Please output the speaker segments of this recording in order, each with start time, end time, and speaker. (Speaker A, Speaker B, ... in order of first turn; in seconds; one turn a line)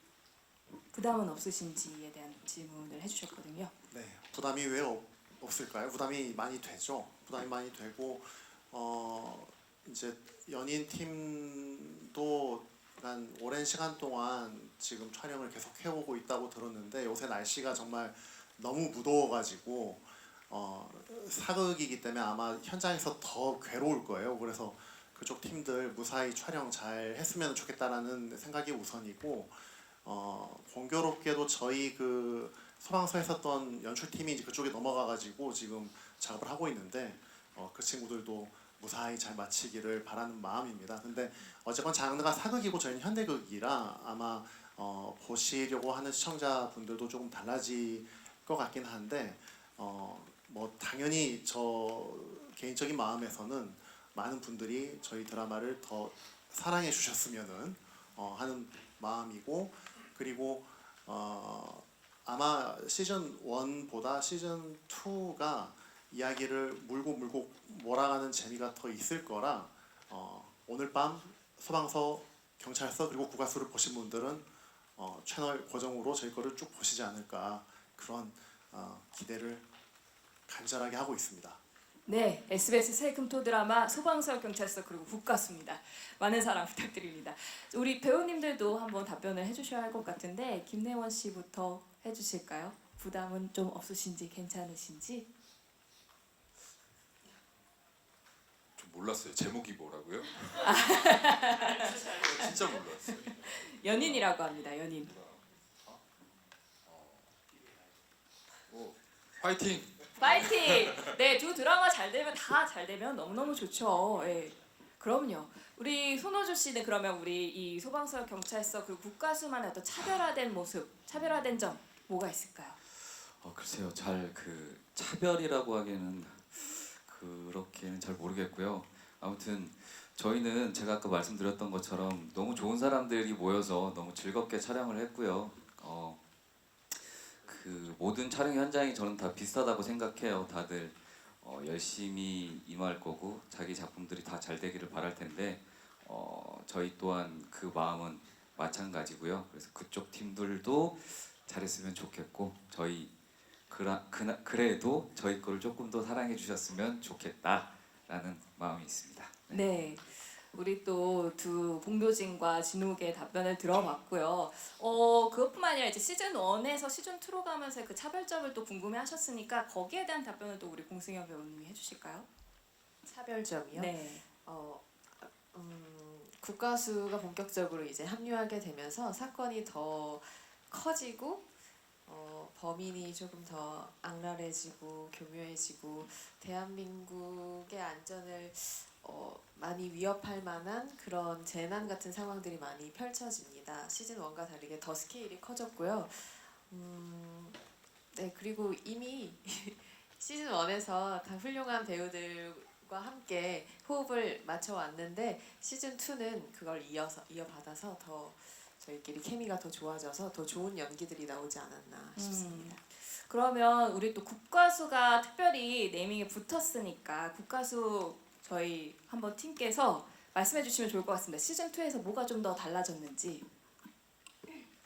Speaker A: 0.9-3.7
Speaker B: 3.9-79.7
Speaker B: 80.5-81.6
Speaker A: 82.0-95.3
Speaker C: 98.8-100.2
Speaker A: 100.4-105.1
Speaker C: 102.3-103.3
Speaker C: 103.9-104.2
Speaker C: 108.7-110.0
Speaker A: 110.2-122.8
Speaker D: 123.2-136.2
Speaker D: 136.9-153.1
Speaker D: 153.7-159.6
Speaker A: 159.5-172.3
Speaker E: 173.0-181.4
Speaker A: 173.7-174.3
Speaker E: 182.1-197.6
Speaker E: 198.1-212.8
Speaker A: 212.2-223.4